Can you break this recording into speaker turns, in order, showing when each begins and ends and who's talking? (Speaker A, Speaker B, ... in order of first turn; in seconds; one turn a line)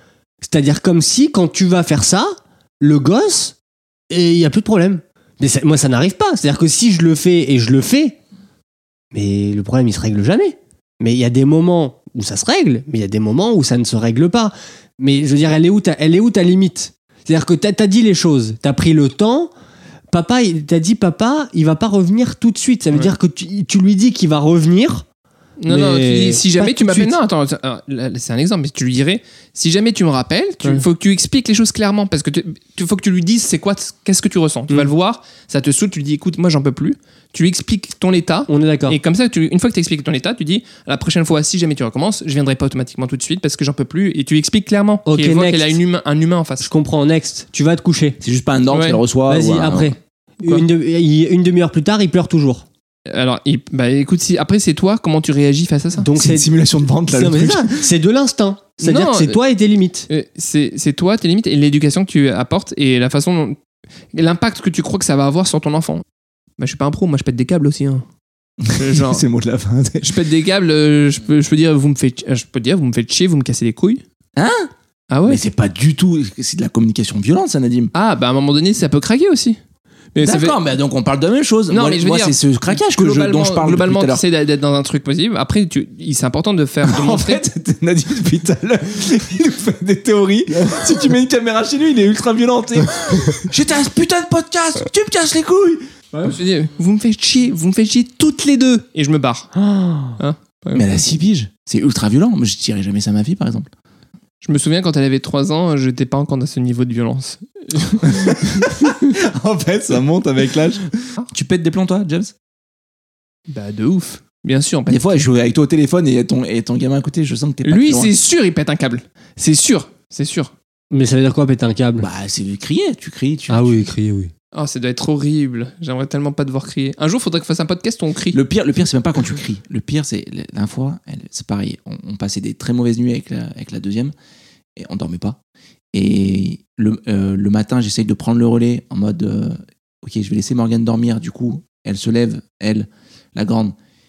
Speaker A: 0.4-3.6
Speaker A: 4.1-8.2
Speaker A: 9.1-19.5
Speaker A: 20.1-25.1
Speaker B: 25.6-46.7
Speaker A: 25.7-27.2
Speaker A: 38.5-39.0
Speaker A: 45.1-45.8
Speaker A: 46.6-48.2
Speaker C: 48.2-49.9
Speaker B: 48.7-49.0
Speaker A: 49.3-52.7
Speaker B: 53.1-56.1
Speaker A: 56.0-56.5
Speaker C: 56.1-57.9
Speaker A: 57.1-60.1
Speaker B: 58.8-59.4
Speaker B: 60.1-63.6
Speaker B: 64.1-66.0
Speaker B: 66.6-68.1
Speaker C: 68.6-70.2
Speaker B: 68.7-69.2
Speaker B: 70.0-74.0
Speaker C: 74.4-74.7
Speaker B: 75.1-75.4
Speaker C: 75.3-77.9
Speaker B: 77.9-79.6
Speaker B: 80.1-80.6
Speaker C: 80.2-84.2
Speaker B: 81.7-87.4
Speaker C: 86.8-95.9
Speaker B: 96.2-99.5
Speaker A: 99.7-100.1
Speaker B: 100.2-100.9
Speaker C: 100.7-103.7
Speaker B: 104.4-109.1
Speaker C: 108.1-112.3
Speaker B: 113.5-115.2
Speaker C: 114.9-118.1
Speaker B: 117.7-120.5
Speaker A: 120.9-122.1
Speaker C: 122.0-123.9
Speaker A: 123.5-124.3
Speaker B: 124.5-128.4
Speaker C: 128.3-134.1
Speaker C: 134.8-135.4
Speaker C: 135.9-143.8